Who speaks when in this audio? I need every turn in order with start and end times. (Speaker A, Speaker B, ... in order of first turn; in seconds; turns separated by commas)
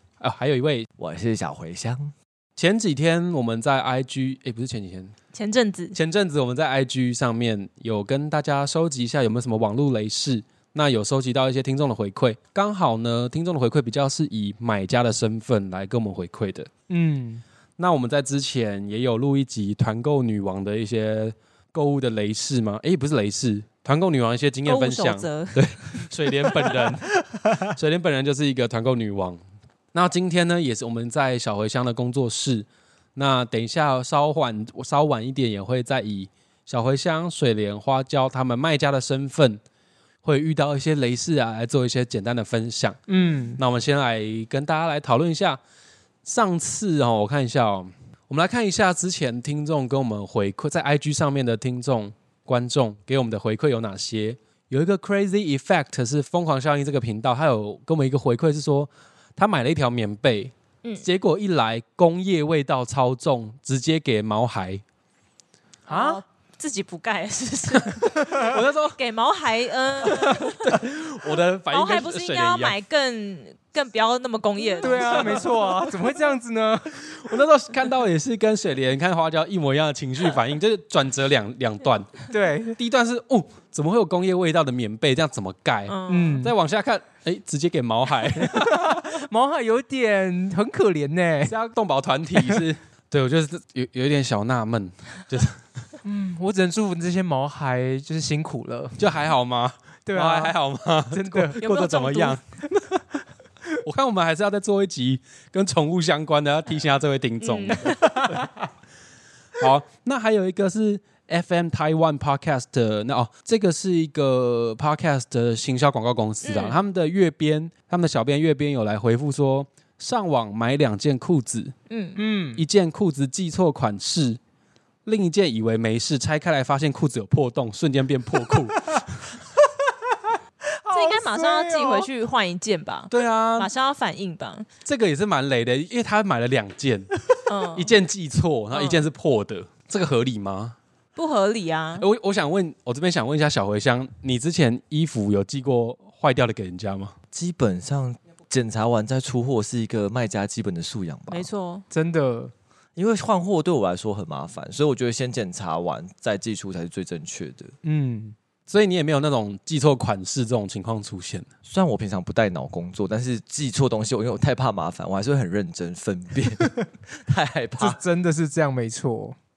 Speaker A: 0.2-0.9, Speaker B: 1.0-2.1, Speaker A: 2.6-5.1, Speaker C: 5.3-6.0, Speaker A: 5.9-16.7, Speaker D: 16.9-17.4, Speaker A: 17.8-29.4, Speaker C: 24.7-26.7, Speaker A: 29.9-39.6, Speaker A: 40.2-43.0, Speaker D: 43.1-43.6, Speaker A: 43.6-45.6, Speaker A: 46.2-60.5, Speaker A: 61.0-64.8, Speaker D: 65.9-66.2, Speaker C: 65.9-70.7, Speaker D: 68.2-68.6, Speaker A: 68.3-69.0, Speaker A: 70.0-72.8, Speaker C: 71.7-75.5, Speaker D: 74.8-77.3, Speaker A: 74.8-76.0, Speaker A: 77.1-88.9, Speaker D: 82.3-82.8, Speaker C: 85.9-86.4, Speaker D: 86.1-86.5, Speaker D: 88.4-91.5, Speaker A: 91.5-95.6, Speaker D: 92.3-92.7, Speaker D: 96.0-99.0, Speaker A: 99.0-102.4, Speaker D: 100.1-100.6, Speaker D: 101.1-101.6, Speaker C: 101.6-102.4, Speaker A: 103.8-108.5, Speaker C: 107.4-108.1, Speaker D: 107.8-108.5, Speaker A: 109.6-121.7, Speaker C: 116.4-116.8, Speaker C: 121.9-122.2, Speaker D: 122.2-122.7, Speaker A: 122.6-124.4, Speaker A: 125.1-129.2, Speaker D: 130.8-132.1, Speaker C: 130.9-134.7, Speaker A: 133.1-133.7, Speaker A: 134.8-137.2, Speaker C: 137.5-137.9, Speaker A: 137.8-140.8, Speaker C: 138.7-139.1, Speaker C: 141.2-142.1, Speaker A: 142.0-147.1, Speaker B: 147.3-151.5, Speaker C: 151.3-151.8, Speaker D: 151.9-152.5, Speaker B: 153.0-157.7, Speaker D: 157.8-158.3, Speaker A: 158.7-161.5, Speaker B: 161.7-168.0, Speaker D: 167.8-169.4